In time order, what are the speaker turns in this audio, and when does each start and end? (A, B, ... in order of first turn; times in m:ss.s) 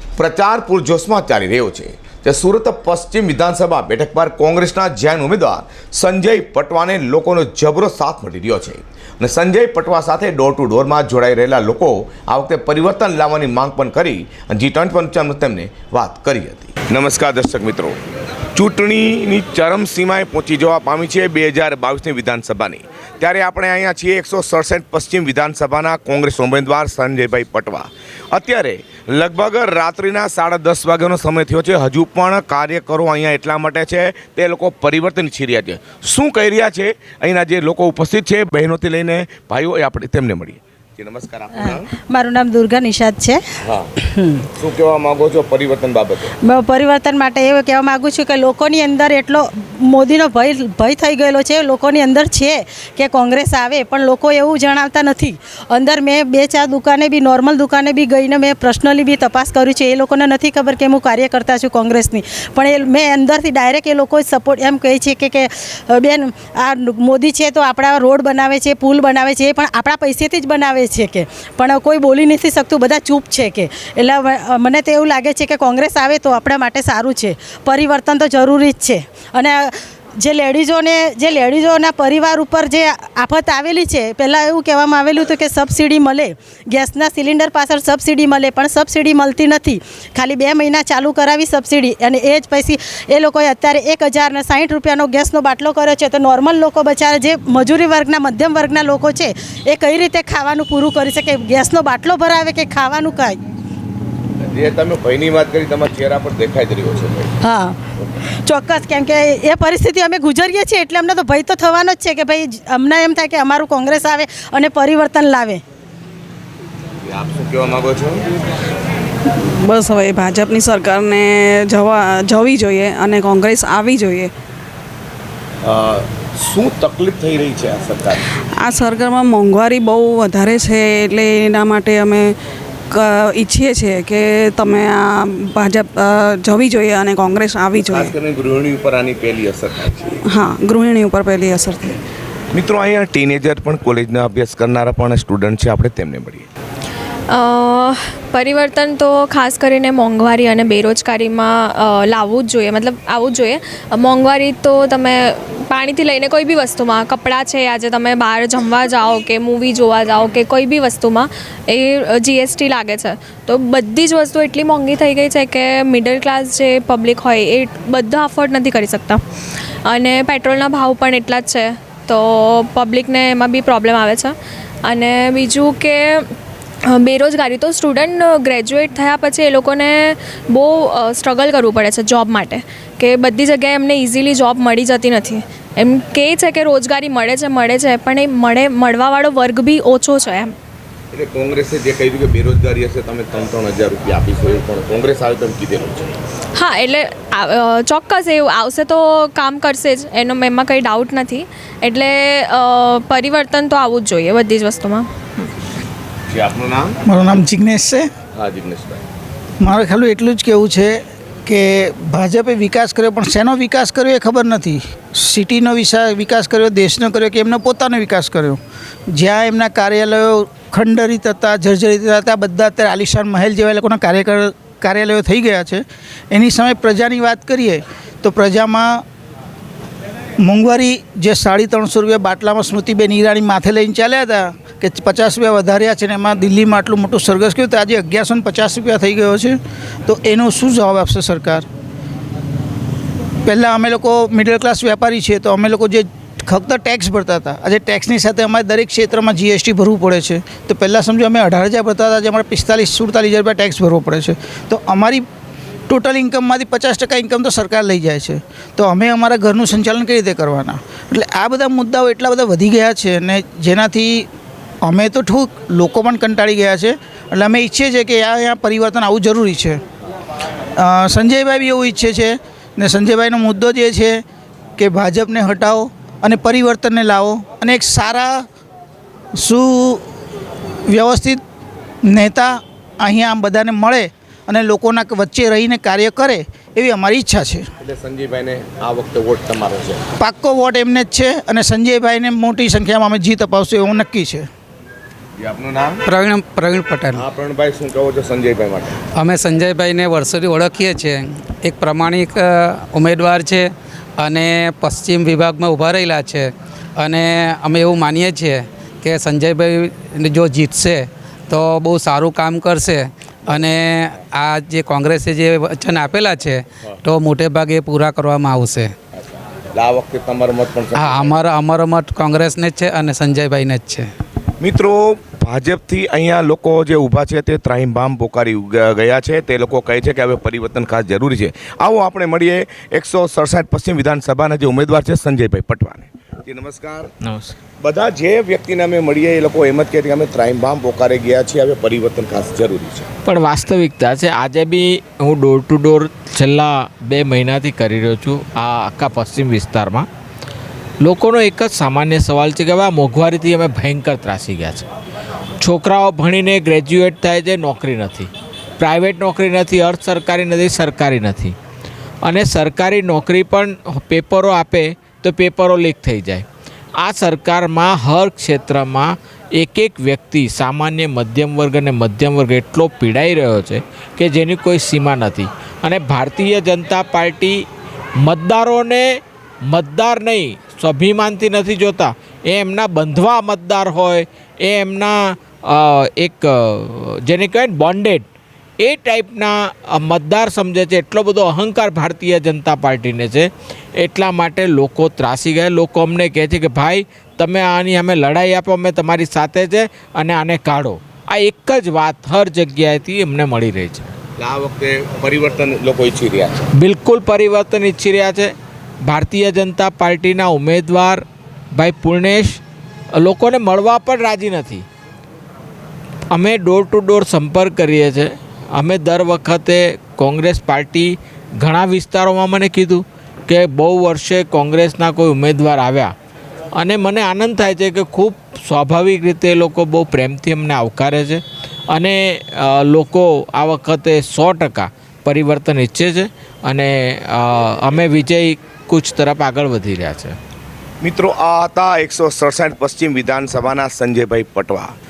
0:00.2-0:18.0 A
0:18.6-0:41.9 A
0:41.6-0:43.4 B
0:43.6-0:43.9 A
0:44.0-0:44.4 B
0:44.6-0:46.3 A
0:46.4-1:43.4 B
1:44.4-1:47.3 A
1:47.4-1:47.8 B
1:48.3-1:55.6 B
1:57.0-1:58.3 A
1:59.7-2:04.3 C
2:05.6-2:08.2 A
2:08.6-2:12.2 C
2:13.0-2:15.0 C
2:15.6-2:15.9 C
2:16.5-2:17.9 C
2:17.8-2:20.1 A
2:20.4-2:21.9 C
2:22.5-2:26.5 A
2:27.3-2:49.2 D
2:49.8-2:56.3 D
2:56.9-3:10.5 D
3:11.1-3:16.1 A
3:16.5-3:25.1 D
3:26.3-3:27.1 A
3:27.1-3:28.1 E
3:28.3-3:29.0 A
3:29.6-3:38.6 E
3:39.1-3:49.0 E
3:50.4-4:01.6 E
4:03.4-4:15.2 E
4:15.9-4:24.3 E
4:24.8-4:29.8 E
4:30.8-4:34.2 E
4:34.8-4:38.4 E
4:39.4-4:40.0 E
4:40.9-4:41.4 E
4:42.1-4:47.7 E
4:47.8-4:50.0 A
4:50.2-4:54.5 E
4:55.4-4:56.0 A
4:56.1-4:57.2 F
4:57.1-4:58.9 A
4:59.2-5:18.9 F
5:13.4-5:13.8 A
5:19.7-5:21.4 A
5:20.9-5:24.1 F
5:24.6-5:37.1 A
5:37.2-5:37.5 G
5:37.8-5:43.1 A
5:43.2-5:50.1 G
5:51.0-5:54.9 G
5:55.6-6:01.6 G
6:02.2-6:06.4 G
6:07.0-6:17.6 G
6:18.2-6:28.3 G
6:28.8-6:44.1 G
6:44.4-6:46.6 A
6:46.8-6:48.5 G
6:49.0-6:51.2 G
6:51.8-6:52.6 G
6:53.2-6:54.9 G
6:56.3-7:06.1 G
7:06.8-7:20.4 G
7:21.0-7:24.9 A